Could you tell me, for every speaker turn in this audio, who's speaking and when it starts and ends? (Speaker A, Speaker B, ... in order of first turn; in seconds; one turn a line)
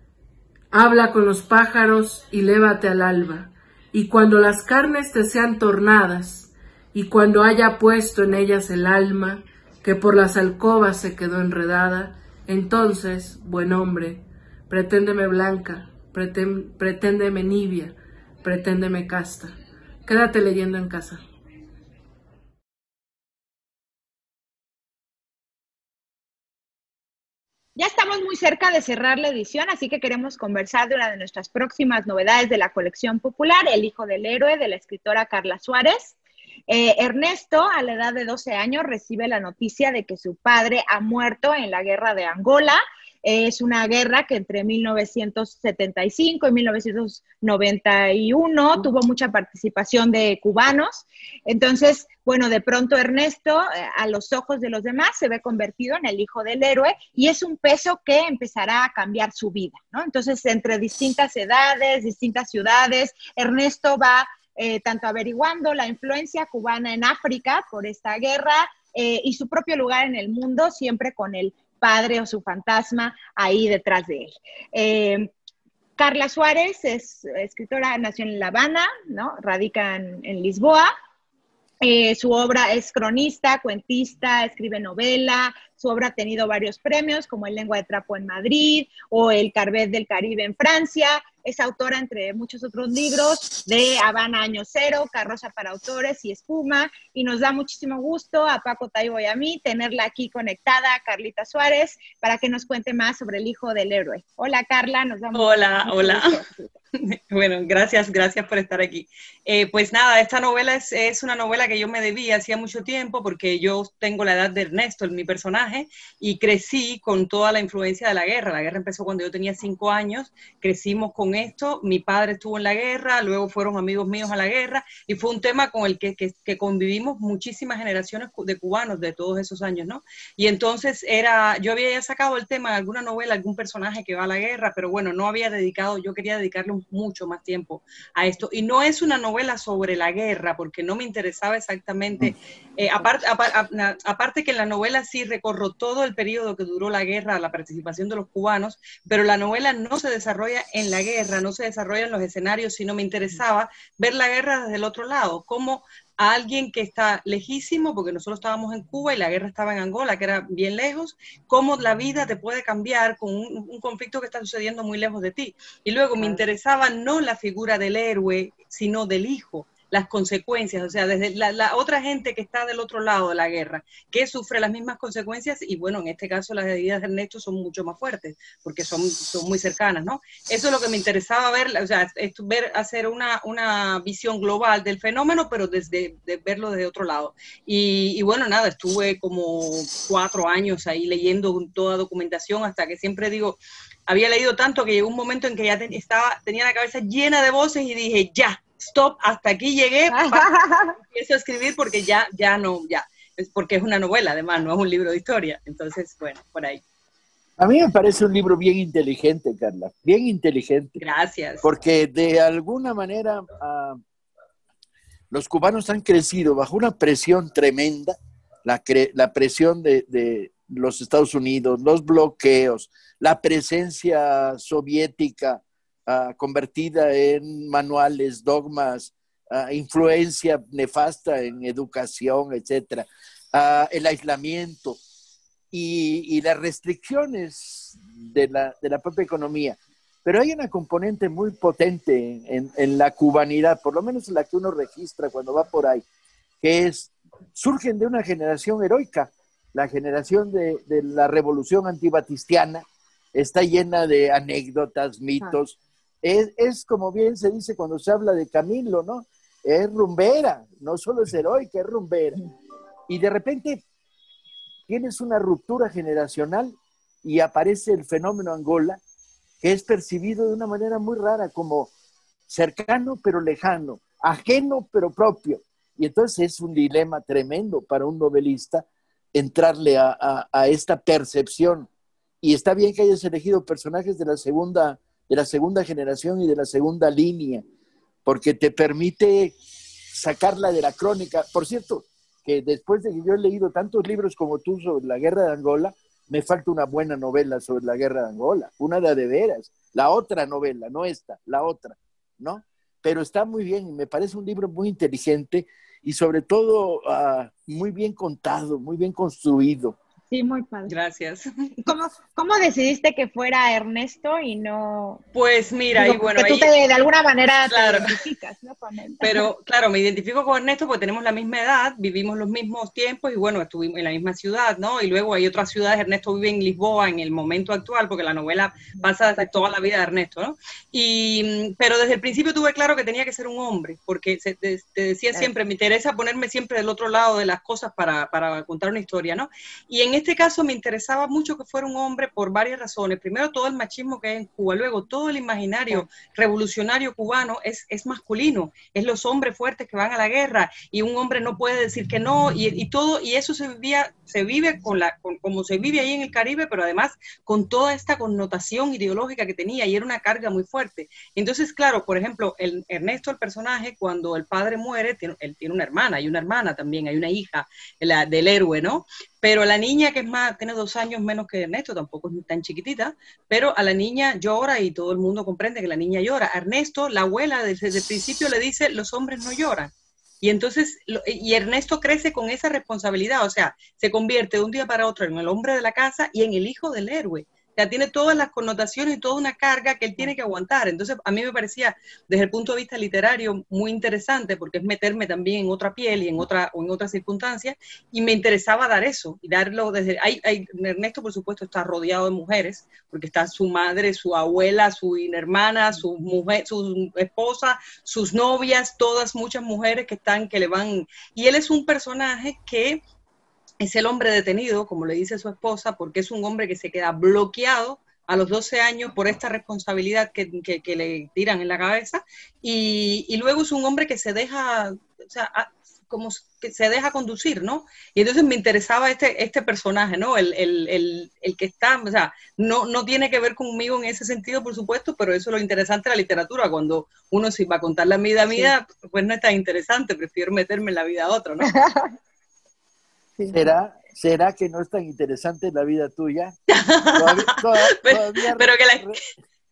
Speaker A: 0.7-19.5
Speaker A: 20.1-21.2
Speaker B: 27.8-36.2
Speaker B: 36.7-75.3
Speaker B: 76.0-80.9
Speaker B: 81.8-106.7
Speaker C: 105.3-106.4
Speaker C: 107.0-200.5
Speaker B: 200.1-200.9
Speaker C: 201.1-206.8
Speaker D: 207.6-211.0
Speaker C: 211.0-211.7
Speaker D: 211.6-214.0
Speaker D: 215.3-235.0
Speaker D: 235.7-246.0
Speaker D: 246.6-262.4
Speaker D: 263.1-263.8
Speaker D: 264.9-269.0
Speaker D: 269.6-271.9
Speaker D: 272.5-281.9
Speaker D: 282.4-287.6
Speaker D: 288.2-289.6
Speaker D: 290.1-310.0
Speaker B: 310.3-310.9
Speaker C: 310.9-311.4
Speaker B: 311.8-315.2
Speaker C: 315.3-316.7
Speaker B: 315.9-319.5
Speaker C: 317.7-318.0
Speaker C: 319.2-413.0
Speaker C: 413.8-441.7
Speaker B: 441.6-442.1
Speaker B: 443.4-443.7
Speaker D: 443.5-446.5
Speaker C: 446.7-449.2
Speaker D: 447.2-449.2